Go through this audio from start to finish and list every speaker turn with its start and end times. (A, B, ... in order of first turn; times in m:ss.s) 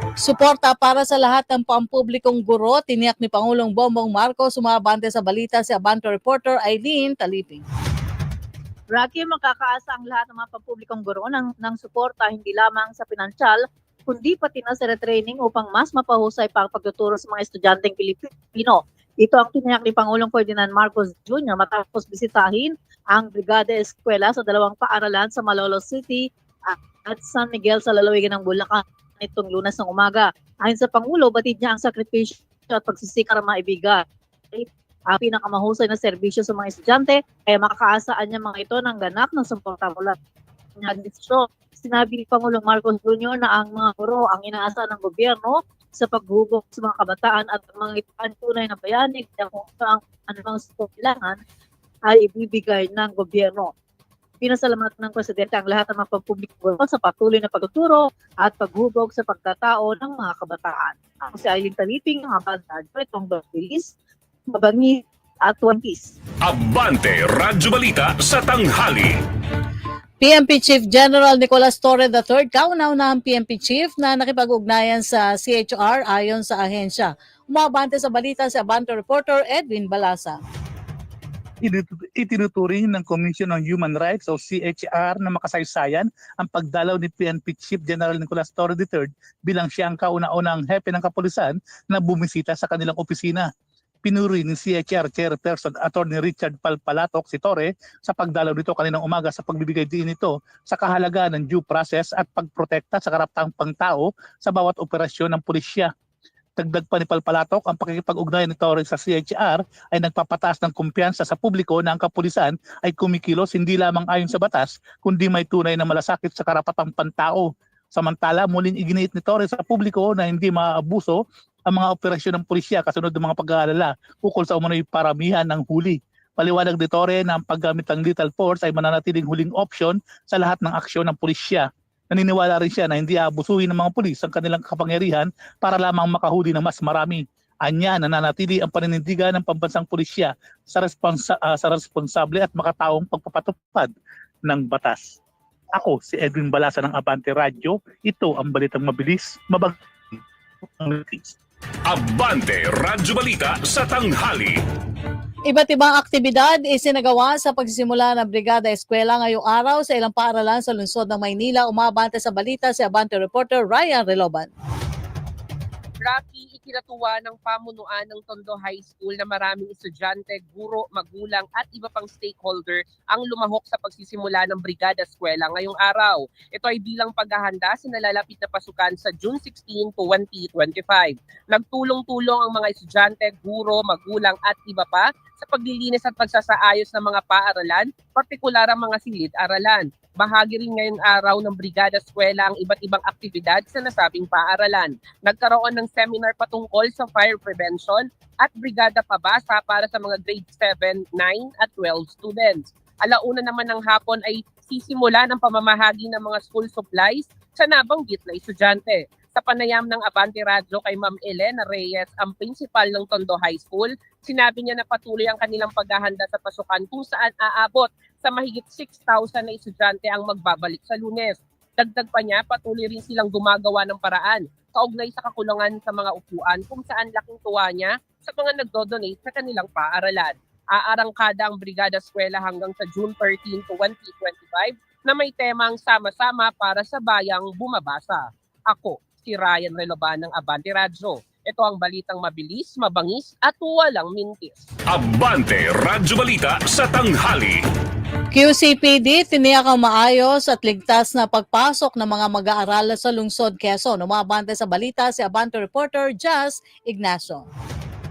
0:00.2-0:07.6 A
0:08.9-0:40.2 B
0:40.8-0:51.4 B
0:52.1-0:53.7 B
0:54.4-1:03.9 B
1:04.5-1:06.1 B
1:06.4-1:09.1 C
1:10.2-1:20.4 A
1:21.6-1:33.5 D
1:34.0-1:45.9 D
1:46.6-2:23.9 D
2:24.5-2:25.2 D
2:25.7-2:31.3 D
2:31.9-2:34.6 C
2:35.5-2:44.5 A
2:46.0-4:04.6 E
4:04.9-4:07.6 C
4:08.3-4:17.5 A